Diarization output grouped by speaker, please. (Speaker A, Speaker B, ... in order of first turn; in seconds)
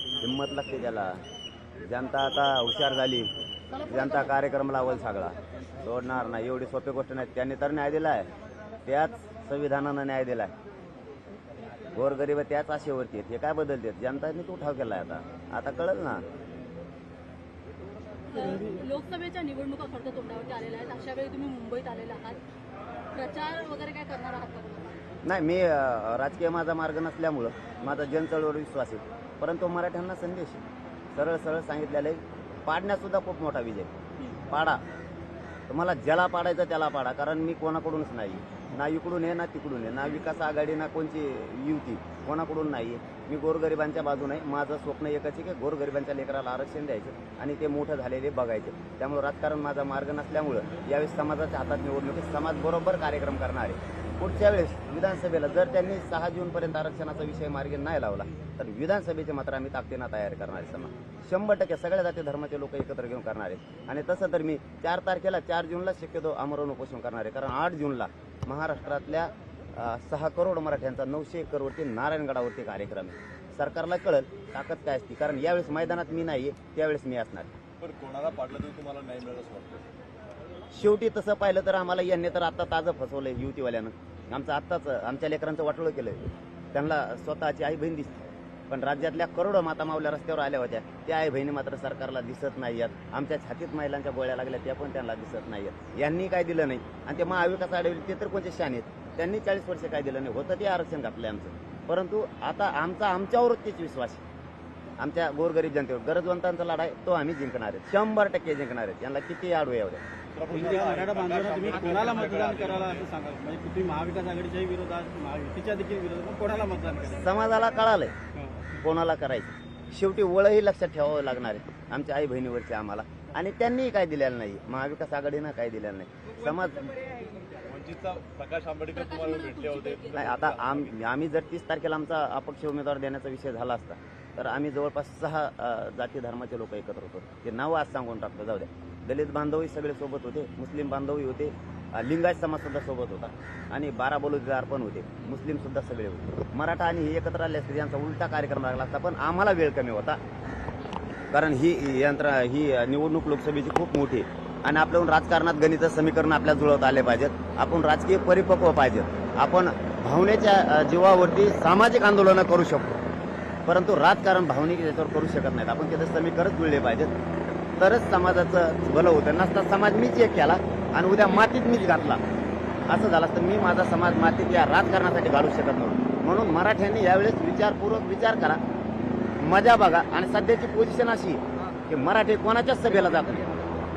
Speaker A: 0.2-1.2, 1.8-3.3, 3.8-8.3, 8.9-10.5, 11.9-16.2, 25.2-30.6, 31.1-33.9, 34.5-34.8, 35.7-77.5, 80.7-86.2, 86.7-104.2, 105.0-110.0, 117.2-118.1, 118.8-126.9, 130.2-150.2, 151.3-162.9, 163.7-167.1, 167.8-172.2, 172.9-178.6, 179.4-183.4
Speaker B: 18.3-22.4, 23.1-25.0, 128.9-130.3
Speaker C: 77.8-79.9, 110.3-113.0, 127.6-130.6
Speaker D: 110.5-117.2